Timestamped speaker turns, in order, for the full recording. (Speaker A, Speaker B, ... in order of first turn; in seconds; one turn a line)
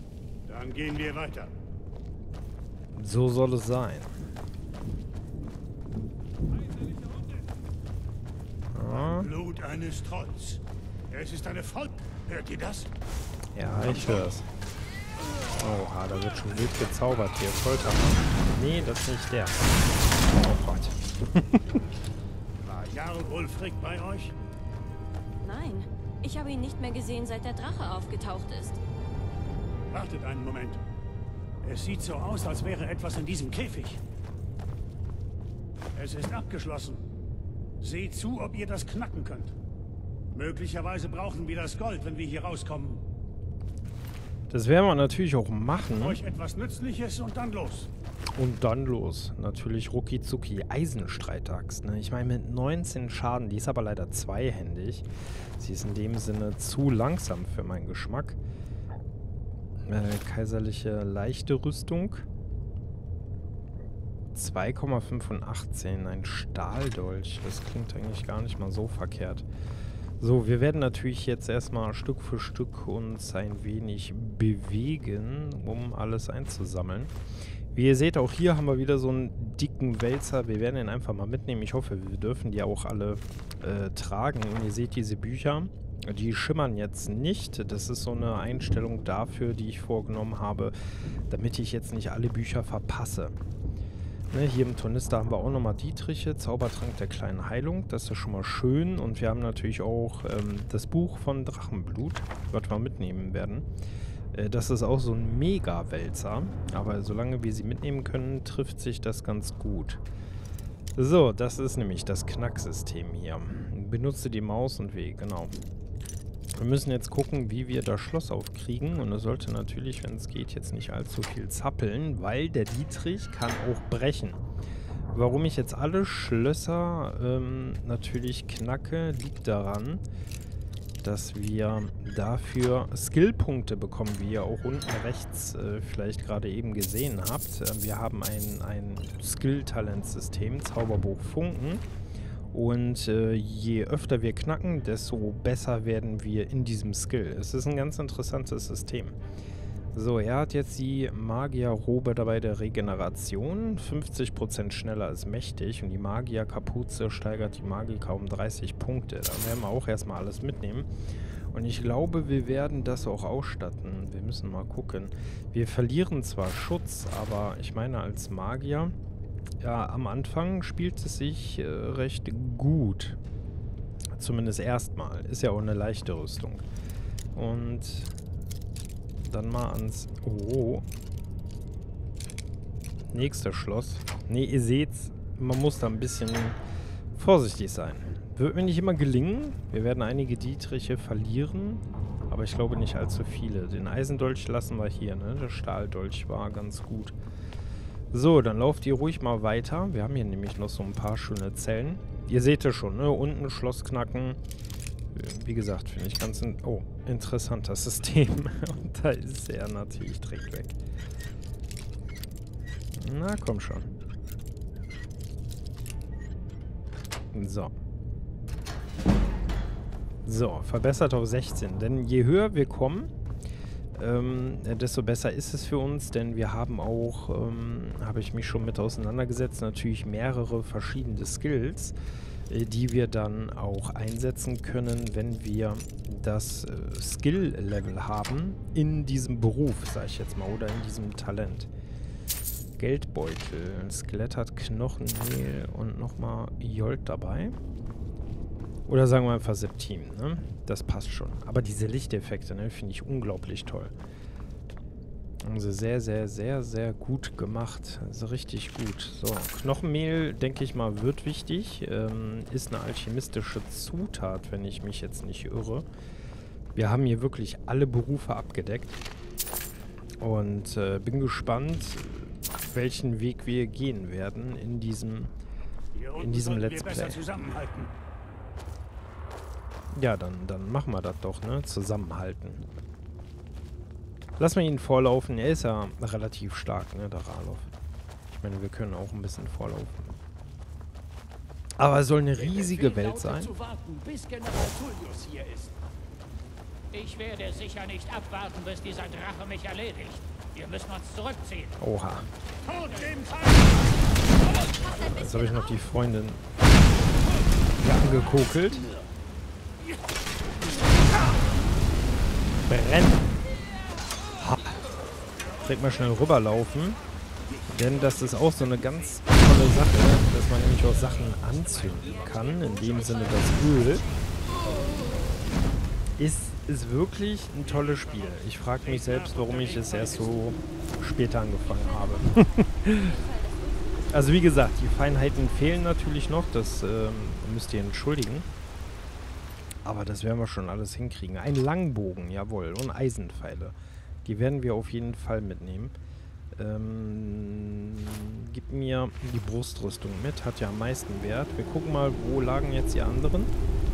Speaker A: 0.5-1.5
Speaker B: 2.9-4.1
Speaker B: 8.7-9.3
Speaker A: 8.8-10.6
Speaker A: 11.1-12.9
Speaker B: 13.5-14.5
Speaker A: 13.8-14.3
Speaker B: 15.6-21.6
Speaker A: 22.6-24.4
Speaker C: 25.4-28.8
Speaker A: 29.9-30.8
Speaker A: 31.6-34.0
Speaker A: 35.9-37.0
Speaker A: 37.8-39.5
Speaker A: 40.3-43.0
Speaker B: 44.5-46.2
Speaker A: 46.0-47.9
Speaker B: 48.3-58.4
Speaker B: 59.8-62.3
Speaker B: 64.3-69.5
Speaker B: 70.2-77.1
Speaker B: 77.7-90.7
Speaker B: 91.3-93.3
Speaker B: 94.3-103.7
Speaker B: 104.3-110.0
Speaker B: 111.0-115.6
Speaker B: 116.5-124.4
Speaker B: 125.1-130.0
Speaker B: 131.0-141.8
Speaker B: 142.5-149.2
Speaker B: 149.9-160.9
Speaker B: 161.5-168.9
Speaker B: 169.6-173.2
Speaker B: 174.1-176.7
Speaker B: 177.3-178.1
Speaker B: 179.2-180.8
Speaker B: 183.1-186.6
Speaker B: 187.1-197.2
Speaker B: 198.1-204.4
Speaker B: 205.1-210.8
Speaker B: 212.9-213.9
Speaker B: 217.3-217.7
Speaker B: 220.2-223.1
Speaker B: 223.9-231.9
Speaker B: 232.5-241.7
Speaker B: 242.8-247.6
Speaker B: 248.9-253.9
Speaker B: 255.4-265.9
Speaker B: 266.7-269.0
Speaker B: 270.2-275.3
Speaker A: 275.9-277.9
Speaker B: 276.2-277.2
Speaker B: 279.9-282.7
Speaker B: 284.4-287.7
Speaker B: 288.4-290.2
Speaker B: 291.8-293.5
Speaker A: 292.4-295.7
Speaker D: 296.9-301.7
Speaker B: 301.8-302.3
Speaker A: 302.6-304.7
Speaker C: 304.8-305.8
Speaker B: 304.9-306.5
Speaker B: 307.8-308.9
Speaker A: 307.9-309.1
Speaker A: 310.8-311.4
Speaker B: 312.7-313.4
Speaker B: 314.4-314.8
Speaker B: 315.6-317.0
Speaker A: 317.4-319.3
Speaker B: 317.7-324.0
Speaker A: 321.5-322.6
Speaker D: 321.9-324.1
Speaker B: 326.2-333.1
Speaker A: 327.6-330.4
Speaker C: 331.6-336.5
Speaker B: 334.1-338.5
Speaker B: 339.8-345.9
Speaker B: 346.5-353.5